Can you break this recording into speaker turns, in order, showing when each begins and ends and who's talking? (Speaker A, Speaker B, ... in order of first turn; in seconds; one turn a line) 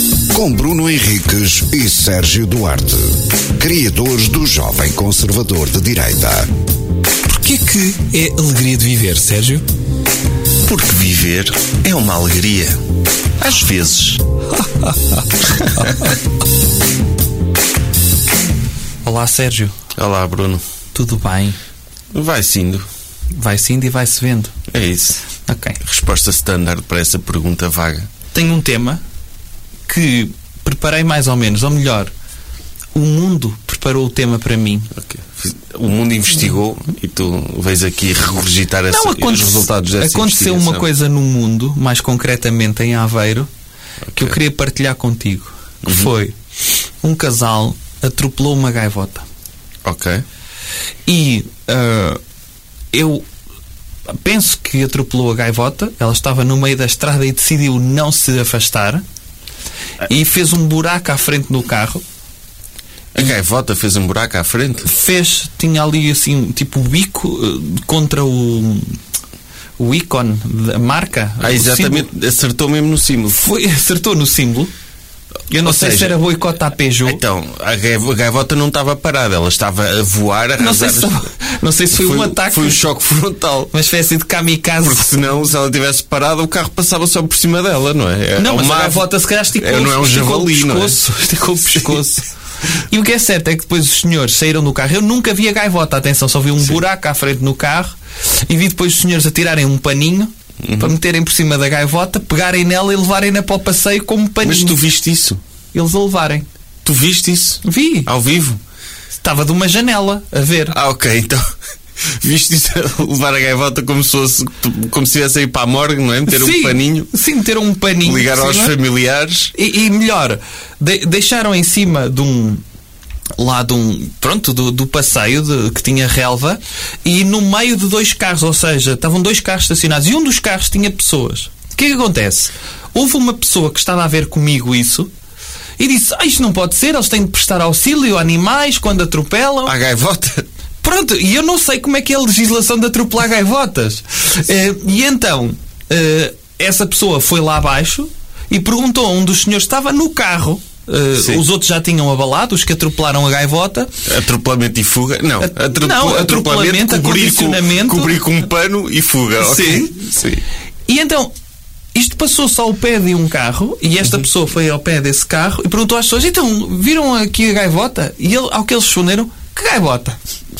Speaker A: 0.3-6.5
Speaker B: 7.3-9.6
Speaker C: 10.6-12.8
Speaker C: 13.4-14.2
Speaker B: 14.6-15.2
Speaker B: 15.7-16.1
Speaker B: 19.0-19.7
Speaker C: 20.0-20.6
Speaker B: 20.9-21.6
Speaker C: 22.1-22.9
Speaker B: 23.3-24.5
Speaker C: 24.7-25.2
Speaker B: 25.4-25.8
Speaker C: 25.8-28.1
Speaker B: 28.3-29.0
Speaker B: 29.9-32.1
Speaker B: 32.9-34.9
Speaker C: 35.0-40.9
Speaker B: 38.9-43.5
Speaker B: 44.1-46.3
Speaker B: 47.0-49.2
Speaker C: 49.8-50.2
Speaker B: 51.1-52.2
Speaker B: 52.9-53.2
Speaker B: 54.2-59.0
Speaker B: 60.0-62.0
Speaker C: 63.1-64.9
Speaker B: 64.8-69.0
Speaker B: 69.8-72.1
Speaker C: 71.4-73.4
Speaker B: 73.3-74.7
Speaker B: 75.5-77.2
Speaker C: 75.6-76.2
Speaker C: 77.0-81.2
Speaker B: 80.6-82.8
Speaker C: 81.9-83.7
Speaker B: 83.7-85.1
Speaker C: 84.8-91.0
Speaker B: 88.3-92.2
Speaker C: 91.8-92.1
Speaker B: 92.8-104.8
Speaker C: 100.6-100.9
Speaker C: 104.4-105.4
Speaker B: 105.7-106.5
Speaker C: 106.8-108.6
Speaker B: 107.6-108.1
Speaker B: 109.2-110.8
Speaker C: 110.7-111.4
Speaker C: 112.1-117.1
Speaker B: 116.3-118.7
Speaker C: 118.0-119.5
Speaker B: 119.5-122.6
Speaker B: 123.4-135.1
Speaker B: 135.8-139.8
Speaker C: 139.7-140.4
Speaker B: 140.8-153.9
Speaker C: 151.2-151.4
Speaker C: 154.1-160.4
Speaker B: 155.4-158.2
Speaker B: 159.4-159.9
Speaker B: 160.9-161.3
Speaker B: 161.9-170.2